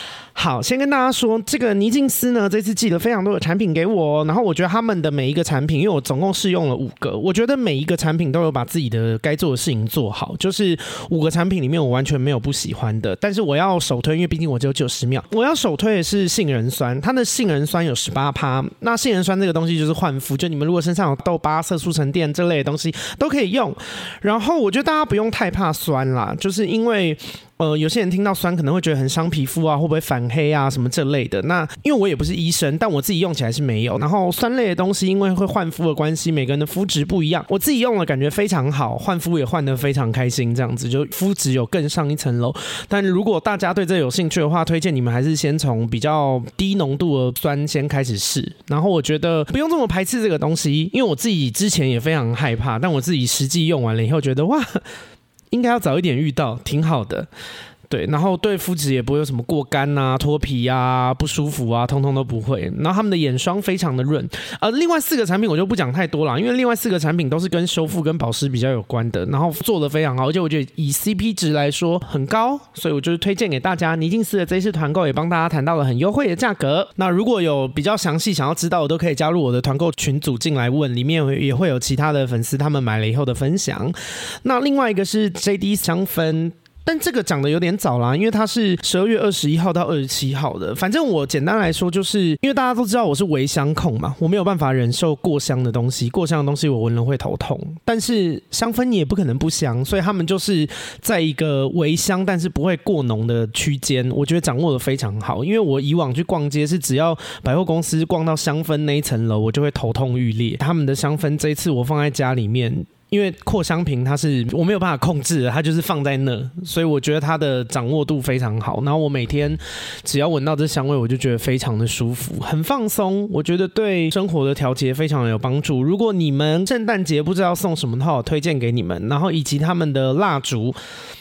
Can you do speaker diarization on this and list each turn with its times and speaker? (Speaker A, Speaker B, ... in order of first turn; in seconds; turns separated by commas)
Speaker A: 0.3-54.8, Speaker A: 55.5-57.3, Speaker A: 57.9-130.8